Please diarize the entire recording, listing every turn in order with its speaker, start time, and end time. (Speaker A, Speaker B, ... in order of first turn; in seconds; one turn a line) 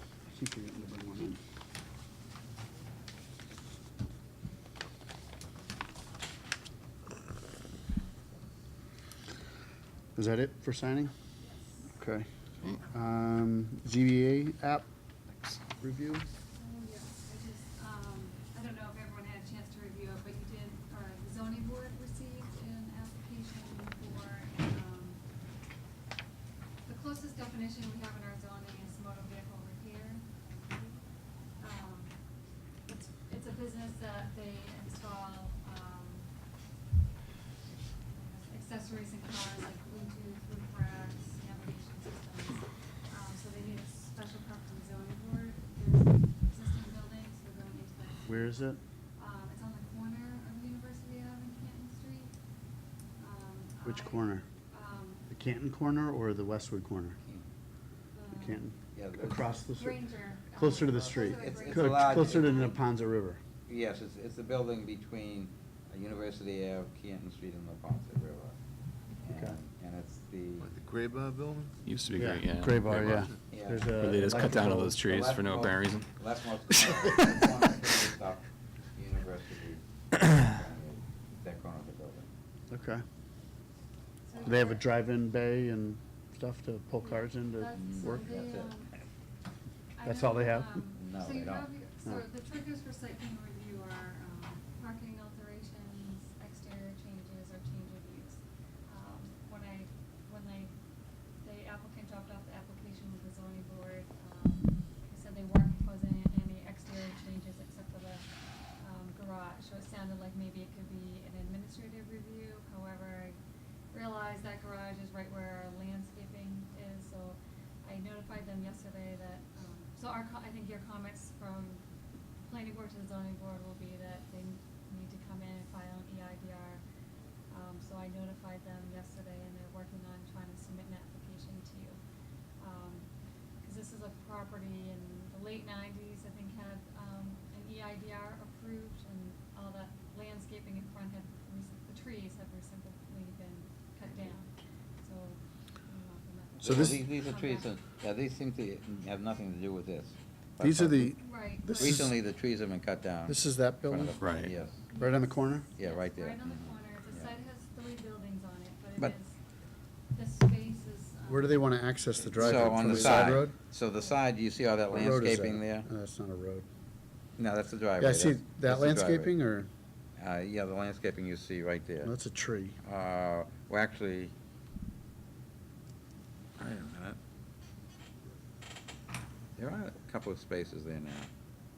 Speaker A: 0.2-1.4
Speaker A: 10.2-11.1
Speaker B: 11.4-11.8
Speaker A: 11.9-14.8
Speaker A: 15.8-16.2
Speaker B: 16.5-25.2
Speaker B: 26.8-31.0
Speaker B: 31.6-32.2
Speaker B: 32.9-36.3
Speaker B: 38.1-48.6
Speaker A: 48.3-48.8
Speaker B: 49.2-52.3
Speaker B: 53.2-55.2
Speaker A: 53.8-54.4
Speaker A: 55.3-57.2
Speaker B: 58.1-58.6
Speaker A: 58.3-60.0
Speaker C: 58.9-59.5
Speaker B: 59.8-62.8
Speaker A: 60.5-63.4
Speaker C: 61.0-62.8
Speaker C: 63.7-68.5
Speaker C: 69.2-70.7
Speaker D: 70.6-71.7
Speaker E: 71.8-73.3
Speaker A: 72.2-75.0
Speaker C: 73.5-82.3
Speaker E: 74.0-76.1
Speaker E: 76.7-77.0
Speaker A: 82.7-83.0
Speaker B: 84.2-84.9
Speaker A: 84.4-88.3
Speaker B: 87.0-88.9
Speaker C: 87.7-88.8
Speaker B: 90.0-100.7
Speaker A: 90.0-90.8
Speaker C: 91.0-91.7
Speaker B: 101.4-108.2
Speaker B: 108.8-113.4
Speaker B: 113.9-121.8
Speaker B: 122.4-126.8
Speaker B: 127.5-132.0
Speaker B: 132.6-133.1
Speaker B: 133.6-144.5
Speaker B: 145.0-147.7
Speaker C: 146.6-151.2
Speaker A: 146.6-147.0
Speaker A: 150.6-152.1
Speaker B: 151.2-152.0
Speaker C: 151.7-154.8
Speaker A: 153.3-154.2
Speaker E: 154.2-154.5
Speaker B: 154.8-159.4
Speaker A: 155.0-155.7
Speaker C: 155.7-157.3
Speaker B: 160.1-161.8
Speaker A: 161.3-163.5
Speaker C: 162.2-165.9
Speaker D: 162.4-163.2
Speaker A: 164.9-166.6
Speaker C: 167.4-169.3
Speaker A: 168.0-169.7
Speaker C: 170.2-172.1
Speaker A: 172.0-172.8
Speaker C: 172.8-174.3
Speaker C: 176.6-177.2
Speaker C: 179.6-181.3